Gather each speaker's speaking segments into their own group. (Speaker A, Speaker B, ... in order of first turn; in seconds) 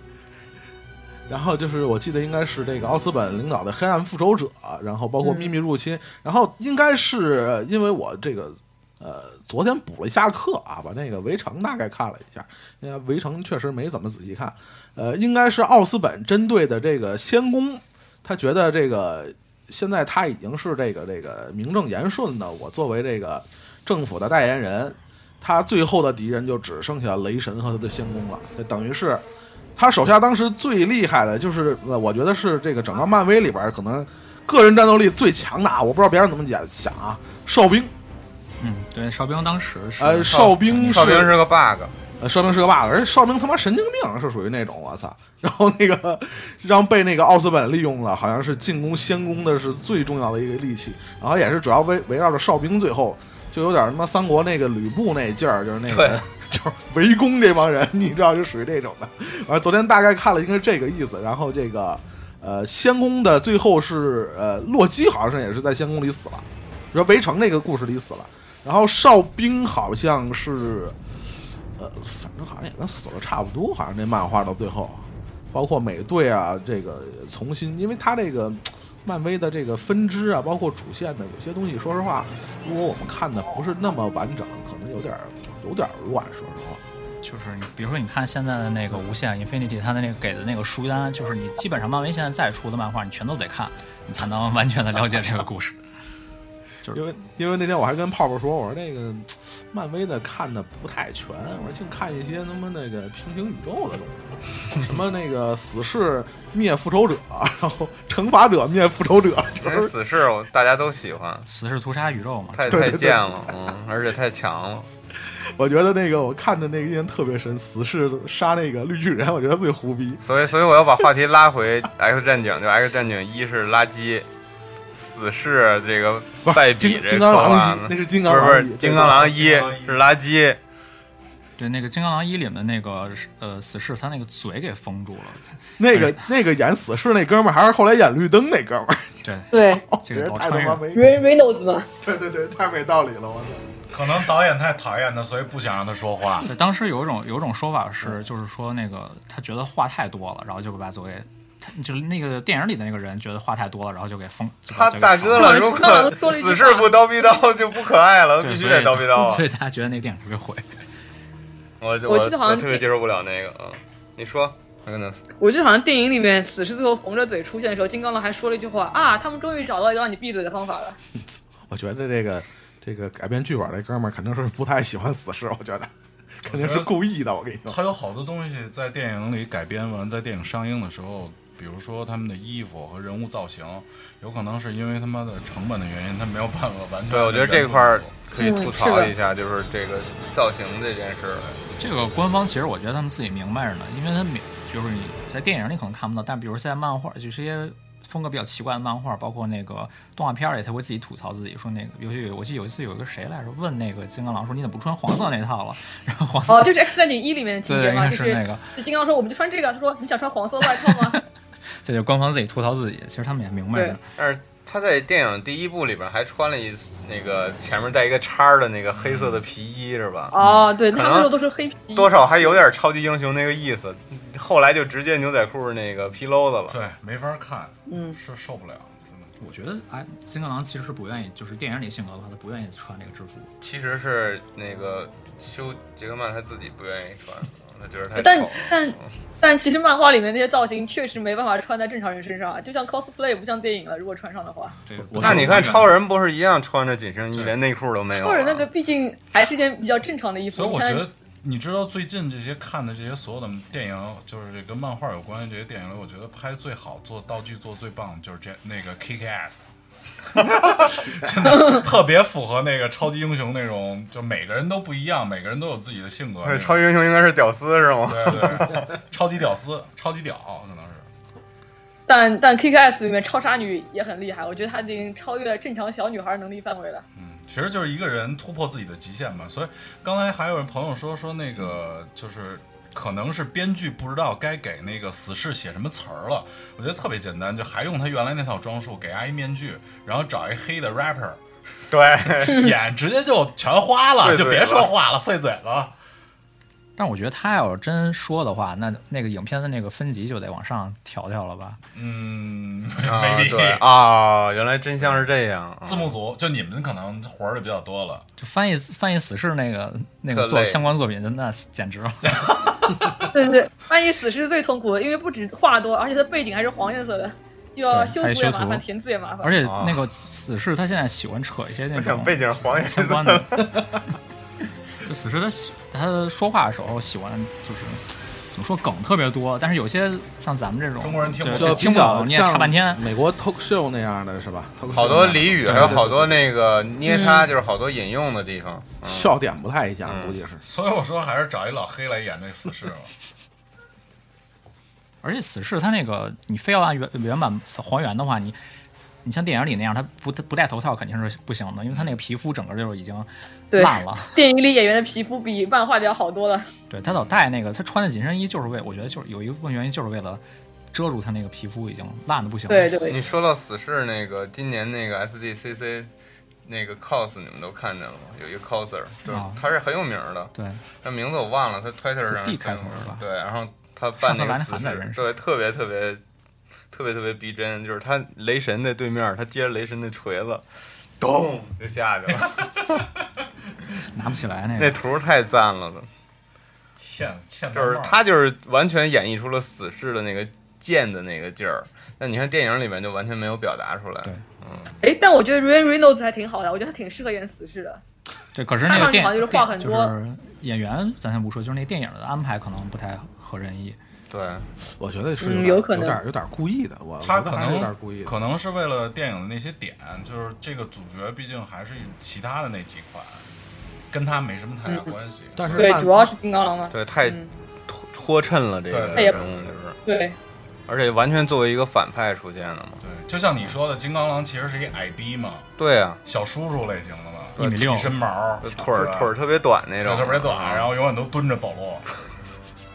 Speaker A: 1.3-29.2, 29.8-37.9, 40.0-41.4, 42.2-71.0, 71.8-86.8, 96.9-109.9, 112.7-113.5, 115.3-120.2, 126.4-129.2, 135.8-141.2, 142.0-143.7, 171.7-177.8, 331.5-336.4, 339.0-340.6, 405.0-408.3, 415.6-416.3
Speaker B: 5.2-5.5, 139.5-139.8, 140.9-141.9, 155.3-157.0, 162.1-162.8, 165.4-171.0, 188.4-189.1, 206.5-211.2, 220.3-222.6, 227.9-228.2, 238.2-244.8, 248.2-251.1, 272.1-277.0, 313.3-319.6, 337.1-337.5, 353.7-356.7, 362.7-363.2, 395.0-398.0, 398.8-400.1, 405.4-406.2, 415.8-417.5, 420.0-420.3
Speaker C: 38.6-41.2, 87.2-95.8, 111.5-112.9, 131.6-136.2, 139.2-140.8, 146.5-155.6, 158.4-160.6, 191.8-206.7, 207.6-208.6, 211.8-214.0, 229.4-233.5, 244.9-245.9, 297.0-301.8, 308.4-312.4, 317.9-318.8, 319.4-323.6, 325.0-333.0, 345.2-348.6, 349.2-354.4, 356.9-363.0, 369.2-369.6, 370.5-370.8, 372.3-373.2, 374.2-375.4, 384.1-385.0, 398.5-404.0, 427.6-428.1
Speaker D: 40.3-41.9, 55.9-56.2, 109.6-111.5, 112.5-114.9, 120.2-124.3, 124.9-130.6, 154.7-159.4, 161.8-165.2, 187.1-191.5, 214.2-220.3, 220.9-221.3, 221.9-226.8, 233.6-239.0, 245.2-248.7, 266.4-268.9, 291.9-292.7, 294.2-294.9, 303.0-306.1, 310.3-310.8, 319.6-320.0, 321.9-323.7, 334.9-339.3, 340.0-340.4, 363.1-366.1, 366.6-376.2, 376.9-380.6, 381.2-383.0, 384.8-386.1, 387.7-394.9, 404.3-404.7, 416.9-420.0, 420.9-423.0, 425.8-426.2, 427.6-427.9, 428.6-430.9
Speaker E: 129.0-130.1, 143.9-146.5, 176.4-176.9, 177.7-188.2, 219.0-219.4, 226.7-229.3, 245.1-245.9, 250.5-259.6, 260.4-266.9, 268.1-271.1, 277.1-291.4, 292.4-295.9, 301.9-303.9, 305.0-305.2, 305.8-308.2, 312.4-313.3, 331.0-332.0, 335.1-336.0, 340.6-343.1, 357.1-357.3, 382.3-383.2, 386.9-388.2, 407.2-413.4, 414.1-415.9, 418.9-419.7, 423.0-425.6, 426.2-429.3, 430.0-432.1